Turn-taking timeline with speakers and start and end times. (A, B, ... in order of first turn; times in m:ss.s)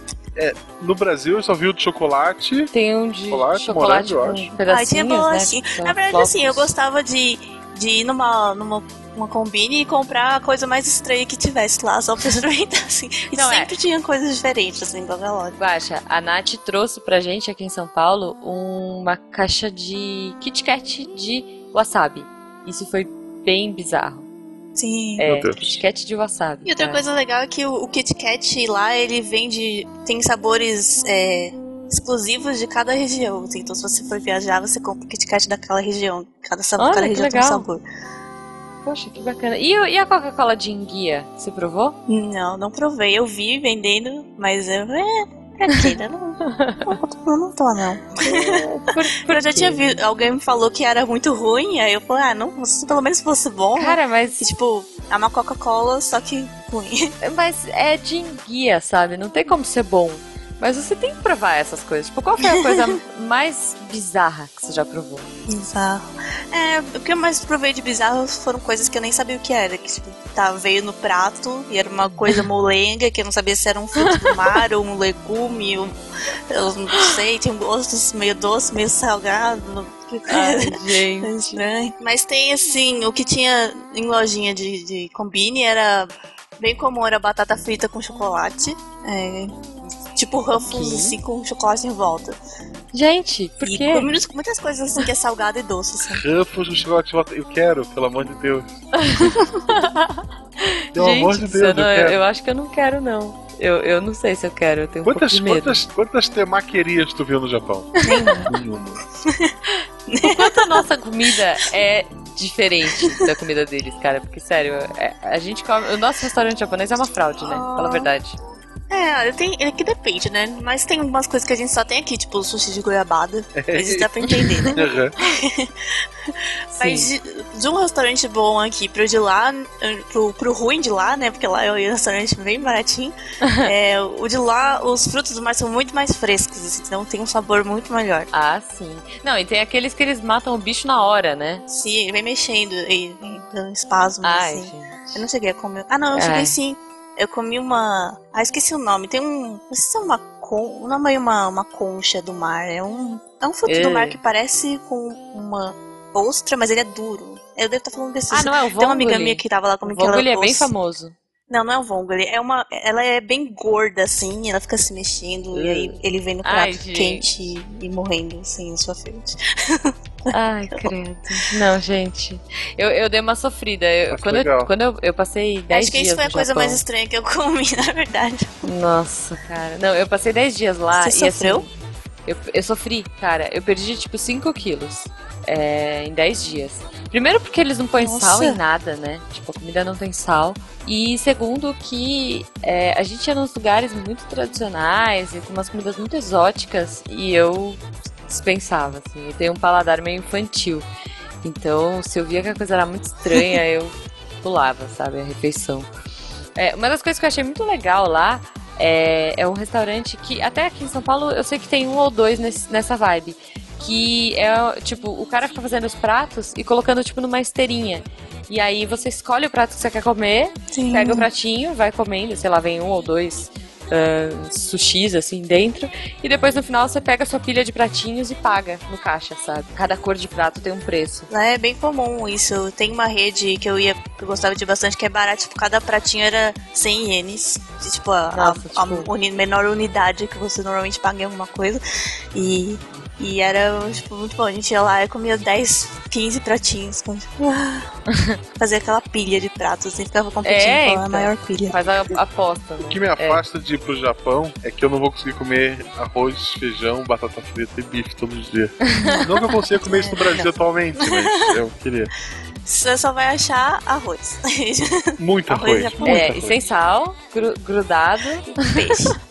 0:00.4-0:02.7 A
0:02.7-0:06.7 B
0:03.3-0:04.5 A
0:04.7-0:15.6 C
0:13.3-0:13.7 B
0:15.6-0:24.3 B
0:24.8-0:25.3 C
0:25.2-0:27.0 B
0:25.3-0:25.8 A
0:26.6-0:37.8 C
0:36.8-0:37.6 B
0:38.8-0:42.0 B
0:42.1-0:48.7 C
0:46.5-0:47.0 B
0:48.2-0:49.8 B
0:49.3-0:57.1 C
0:53.8-0:54.5 B
0:57.2-1:05.3 B
1:05.5-1:16.0 C
1:16.5-1:29.5 C
1:20.3-1:21.6 B
1:30.2-1:32.4 C
1:30.6-1:31.2 B
1:32.9-1:34.1 B
1:33.6-1:36.2 C
1:36.1-1:38.8 A
1:39.0-1:45.8 B
1:41.0-1:42.2 A
1:45.1-1:47.9 A
1:48.0-1:48.5 B
1:48.0-1:48.6 C
1:48.5-1:49.0 A
1:49.2-1:49.5 C
1:50.1-1:50.7 C
1:50.2-1:58.4 B
1:57.4-1:58.1 C
1:58.9-2:05.7 C
2:03.6-2:05.2 A
2:04.5-2:04.7 B
2:06.7-2:07.1 B
2:06.7-2:18.3 C
2:13.4-2:13.7 B
2:18.3-2:21.6 B
2:21.7-2:40.7 C
2:24.2-2:25.2 B
2:26.1-2:26.5 B
2:33.6-2:34.2 B
2:38.3-2:41.2 B
2:41.5-2:50.9 C
2:45.5-2:47.3 B
2:50.3-2:56.8 B
2:54.1-2:54.7 A
2:55.7-2:58.6 C
2:58.6-3:01.7 B
3:01.0-3:01.7 C
3:02.3-3:20.9 B
3:08.0-3:08.6 C
3:21.4-3:25.9 B
3:26.6-3:51.3 B
3:40.7-3:41.3 C
3:51.3-4:01.8 C
3:58.3-3:59.1 B
4:02.4-4:07.9 C
4:08.6-4:11.8 C
4:10.4-4:13.4 B
4:12.8-4:22.1 A
4:18.9-4:19.2 B
4:19.0-4:20.5 C
4:21.0-4:21.6 C
4:22.6-4:26.2 C
4:25.2-4:26.6 A
4:26.0-4:28.6 B
4:28.6-4:29.2 C